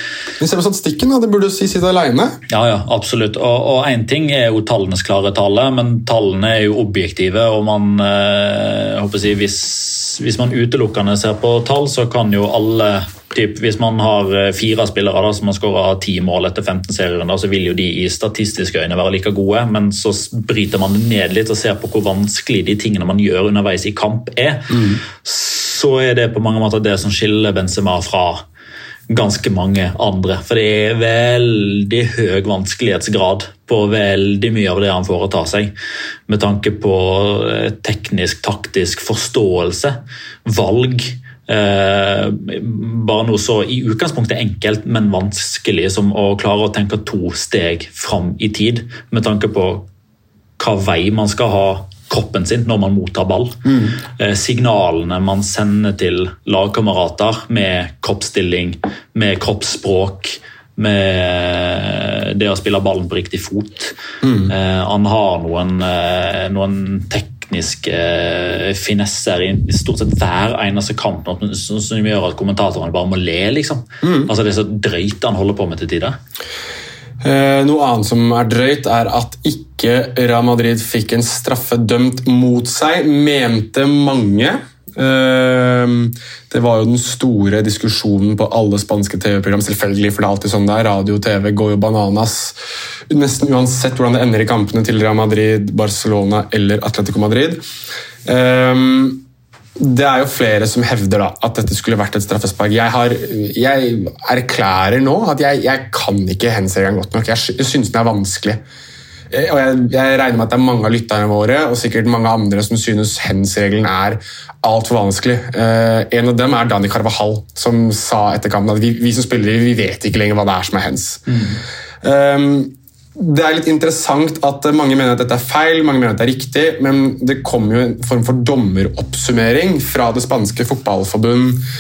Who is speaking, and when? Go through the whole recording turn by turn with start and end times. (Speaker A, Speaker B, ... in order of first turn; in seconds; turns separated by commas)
Speaker A: 0.4-2.4, Speaker B: 2.5-28.4, Speaker A: 24.7-25.0, Speaker B: 29.1-35.7, Speaker B: 36.3-49.9, Speaker B: 50.6-64.0, Speaker A: 53.6-54.0, Speaker A: 64.2-64.5, Speaker B: 64.5-76.2, Speaker A: 74.0-74.3, Speaker A: 77.2-92.6, Speaker A: 93.1-97.6, Speaker A: 98.2-99.2, Speaker A: 99.8-108.6, Speaker A: 109.3-121.4, Speaker B: 121.3-121.6, Speaker A: 122.0-131.6